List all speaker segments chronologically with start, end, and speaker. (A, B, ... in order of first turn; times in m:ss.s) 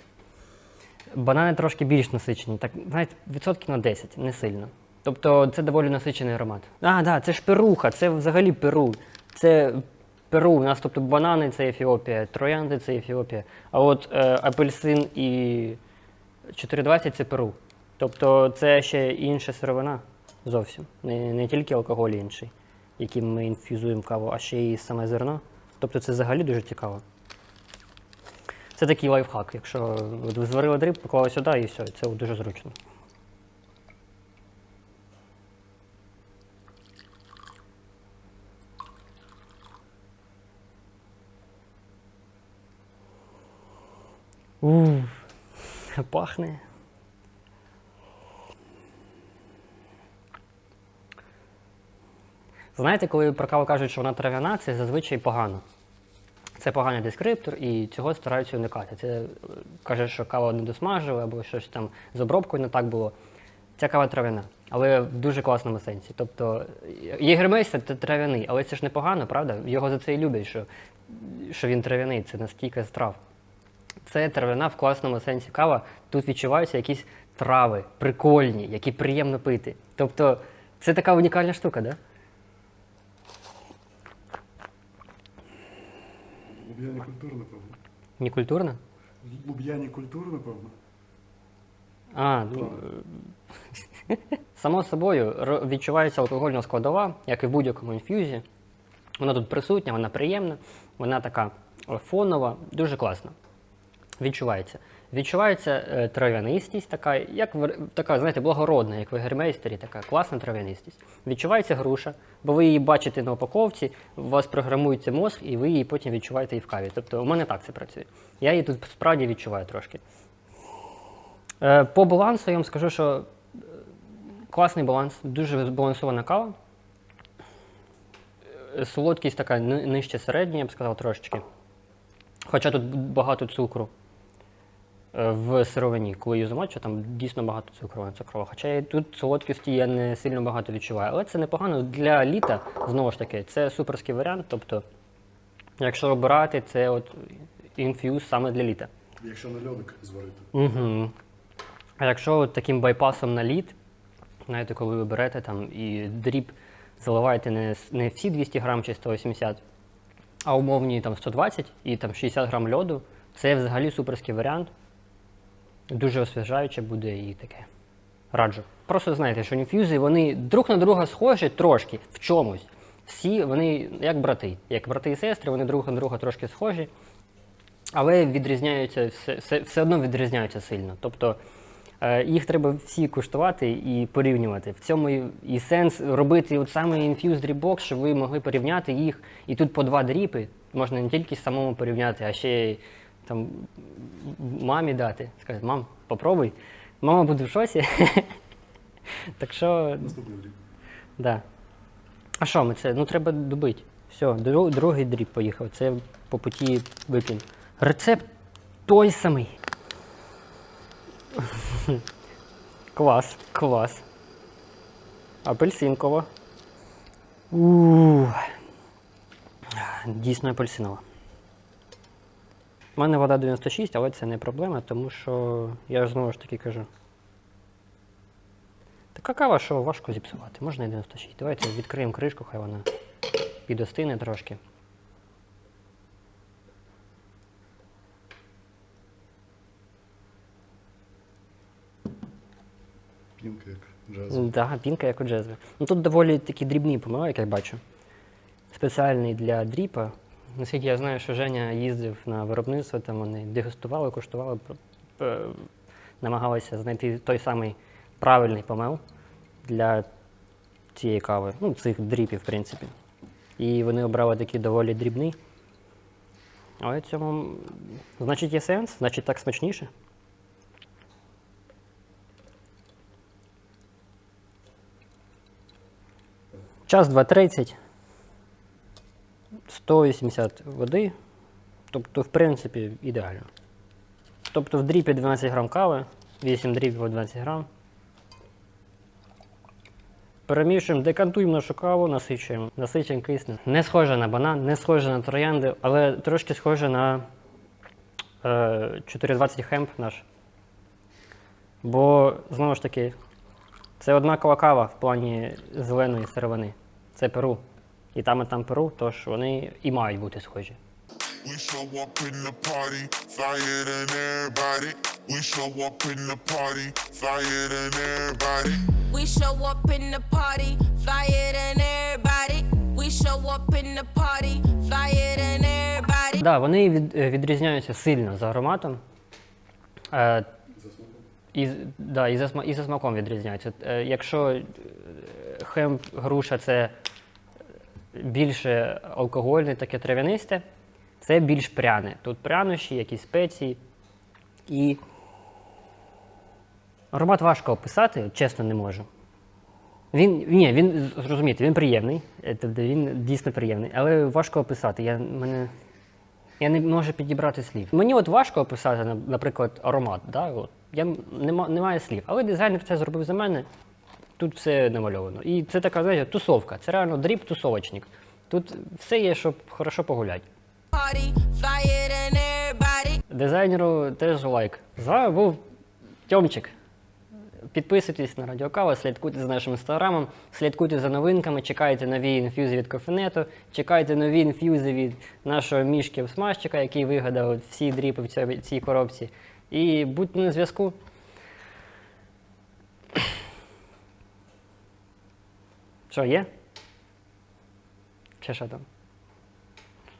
0:01.1-0:15.8 A
0:16.5-0:27.0 A
0:28.8-0:32.8 A
0:44.6-0:46.6 A
0:52.8-0:55.6 A
0:56.6-1:03.1 A
1:03.8-1:13.2 A
1:14.0-1:22.0 A
1:26.5-1:27.8 B
1:28.2-1:28.8 A
1:29.2-1:30.7 B
1:32.1-1:33.2 A
1:34.1-1:38.4 A
1:39.2-1:43.3 A
1:44.2-2:00.0 A
2:01.6-2:03.6 A
2:04.5-2:06.6 A
2:08.6-2:11.4 A
2:12.5-2:13.9 A
2:15.1-2:24.8 A
2:25.8-2:28.9 A
2:29.2-2:30.5 B
2:30.5-2:31.1 A
2:32.0-2:33.8 A
2:34.5-2:39.6 A
2:40.4-2:44.7 A
2:45.9-2:47.7 A
2:48.3-2:56.9 A
2:57.9-3:01.4 A
3:02.0-3:18.4 A
3:19.4-3:20.2 A
3:20.0-3:20.6 B
3:21.2-3:21.4 A
3:22.4-3:28.3 A
3:28.9-3:29.6 A
3:31.4-3:32.0 A
3:33.0-3:34.0 A
3:35.4-3:36.3 A
3:37.5-3:38.5 A
3:39.7-3:41.0 A
3:43.0-3:46.9 A
3:49.1-3:52.8 A
3:53.7-3:54.6 A
4:03.4-4:04.5 B
4:04.3-4:07.8 A
4:08.7-4:15.7 A
4:16.2-4:19.0 A
4:19.6-4:20.1 A
4:21.0-4:22.9 A
4:23.6-4:25.4 A
4:26.8-4:29.9 A
4:36.9-4:37.8 A
4:39.7-4:41.1 A
4:41.9-4:43.5 A
4:44.5-4:47.7 A
4:50.5-4:57.3 A
4:58.4-5:00.2 A
5:01.8-5:03.2 A
5:04.0-5:07.6 A
5:08.2-5:10.8 A
5:11.4-5:19.0 C
5:19.1-5:26.4 D
5:26.4-5:29.0 A
5:30.1-5:30.5 A
5:30.8-5:31.2 B
5:31.5-5:36.9 A
5:38.2-5:40.6 A
5:41.2-5:43.8 A
5:44.7-5:45.0 A
5:47.1-5:49.1 A
5:50.1-5:55.7 A
5:56.6-6:03.7 A
6:04.4-6:10.4 A
6:10.9-6:13.2 D
6:13.3-6:15.6 A
6:16.3-6:16.7 A
6:17.7-6:31.0 A
6:36.1-6:36.5 A
6:38.4-6:38.8 A